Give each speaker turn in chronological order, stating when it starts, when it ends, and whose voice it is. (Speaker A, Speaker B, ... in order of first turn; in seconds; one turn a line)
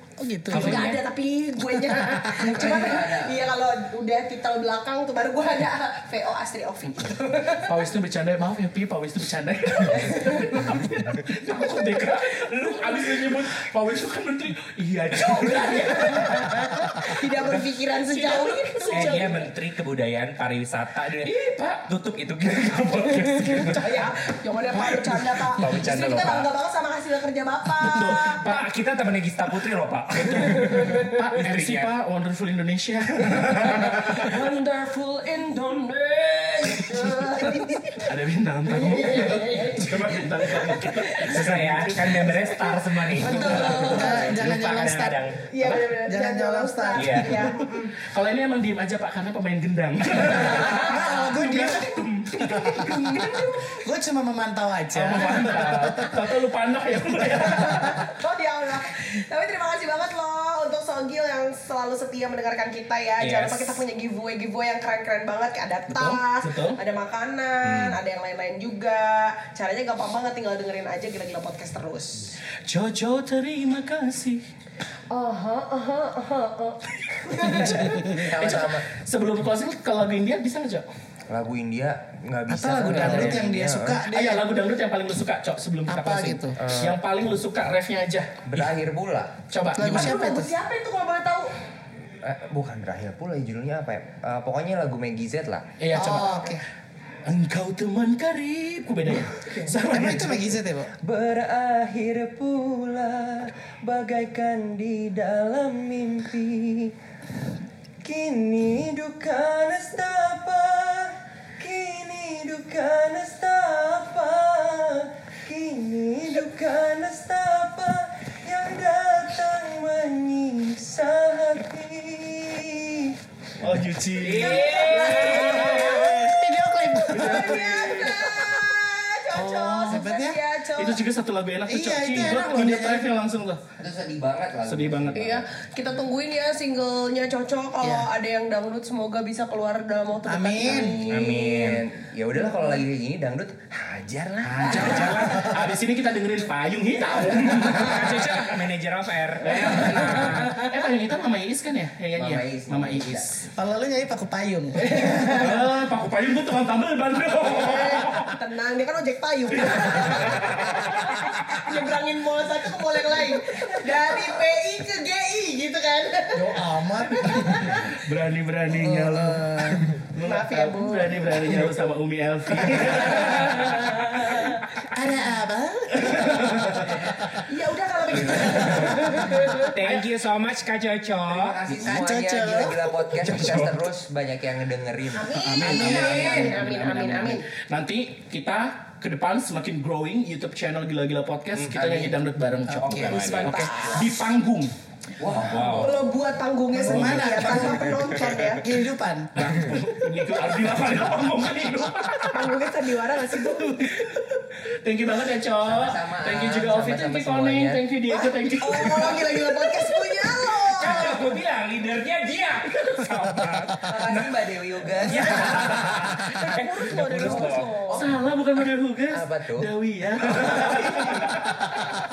Speaker A: 0.2-0.9
Speaker B: 0.5-1.0
Speaker C: 0.5-7.8
Speaker A: 1.7-2.5
Speaker D: 2.4-3.4
Speaker E: 7.7-17.2
Speaker C: 9.9-10.8
Speaker C: 11.5-11.9
Speaker C: 12.6-13.1
Speaker C: 15.2-19.4
Speaker E: 18.0-19.5
Speaker B: 18.9-21.4
Speaker E: 21.2-21.9
Speaker B: 21.9-23.8
Speaker C: 22.9-28.4
Speaker E: 22.9-23.9
Speaker E: 24.8-25.2
Speaker B: 25.6-26.5
Speaker E: 27.8-28.7
Speaker B: 28.4-31.9
Speaker E: 30.2-34.3
Speaker C: 30.3-31.1
Speaker B: 33.4-34.0
Speaker C: 34.1-38.1
Speaker E: 38.0-42.3
Speaker C: 38.7-41.4
Speaker B: 41.2-45.4
Speaker C: 42.0-44.4
Speaker A: 43.4-47.6
Speaker C: 45.5-47.9
Speaker B: 47.0-47.4
Speaker E: 48.0-53.5
Speaker C: 50.3-53.9
Speaker A: 50.5-52.0
Speaker A: 53.8-56.1
Speaker E: 54.9-58.0
Speaker C: 57.4-72.3
Speaker B: 63.2-63.8
Speaker E: 65.9-66.8
Speaker B: 67.6-68.0
Speaker E: 72.7-74.4
Speaker C: 75.1-78.2
Speaker E: 77.4-80.9
Speaker A: 77.5-78.3
Speaker D: 78.2-78.9
Speaker D: 81.3-84.1
Speaker A: 82.5-84.5
Speaker B: 82.9-83.3
Speaker E: 84.1-88.3
Speaker A: 85.9-86.6
Speaker D: 88.5-89.4
Speaker E: 89.5-90.2
Speaker A: 89.8-90.5
Speaker C: 89.8-91.5
Speaker D: 92.2-95.7
Speaker E: 95.8-96.5
Speaker A: 96.0-96.6
Speaker C: 96.0-96.5
Speaker E: 97.3-100.6
Speaker D: 99.4-99.8
Speaker A: 99.9-100.9
Speaker D: 100.9-106.9
Speaker D: 108.0-123.2
Speaker E: 123.6-126.1
Speaker B: 124.2-126.3
Speaker C: 124.2-126.1
Speaker A: 125.2-127.8
Speaker E: 127.1-128.4
Speaker C: 127.2-131.0
Speaker A: 129.4-130.4
Speaker E: 129.5-130.0
Speaker E: 130.8-133.6
Speaker A: 131.7-133.1
Speaker D: 133.8-135.5
Speaker E: 134.7-135.2
Speaker C: 135.2-141.3
Speaker A: 137.8-138.1
Speaker A: 140.3-141.0
Speaker D: 140.7-145.2
Speaker B: 141.1-141.8
Speaker E: 144.4-148.5
Speaker B: 144.7-145.6
Speaker B: 147.5-150.7
Speaker E: 149.4-153.5
Speaker D: 152.2-153.3
Speaker A: 153.5-155.5
Speaker C: 154.9-155.6
Speaker E: 155.2-158.3
Speaker C: 157.5-168.0
Speaker E: 159.6-161.1
Speaker A: 166.3-167.8
Speaker E: 168.0-173.9
Speaker A: 168.7-170.0
Speaker C: 170.2-171.1
Speaker A: 171.0-171.7
Speaker C: 172.9-174.6
Speaker A: 174.9-177.4
Speaker E: 176.0-177.0
Speaker C: 177.5-179.7
Speaker D: 178.3-178.6
Speaker B: 179.7-181.6
Speaker E: 179.8-180.1
Speaker D: 181.3-186.6
Speaker A: 181.8-182.9
Speaker B: 183.3-183.8
Speaker C: 185.2-187.5
Speaker E: 185.4-194.7
Speaker A: 185.7-186.0
Speaker D: 191.6-192.2
Speaker A: 192.7-194.1
Speaker B: 192.8-193.7
Speaker D: 195.2-196.1
Speaker B: 195.4-195.9
Speaker C: 195.6-198.8
Speaker A: 196.7-199.3
Speaker D: 197.6-198.6
Speaker E: 199.3-202.7
Speaker C: 202.2-204.3
Speaker E: 203.7-209.5
Speaker D: 205.7-207.8
Speaker C: 208.1-211.3
Speaker B: 210.6-214.3
Speaker E: 212.7-213.1
Speaker D: 213.9-215.6
Speaker B: 215.0-217.8
Speaker C: 216.3-218.1
Speaker D: 217.4-218.0
Speaker E: 217.9-221.5
Speaker D: 219.1-219.7
Speaker B: 220.6-221.1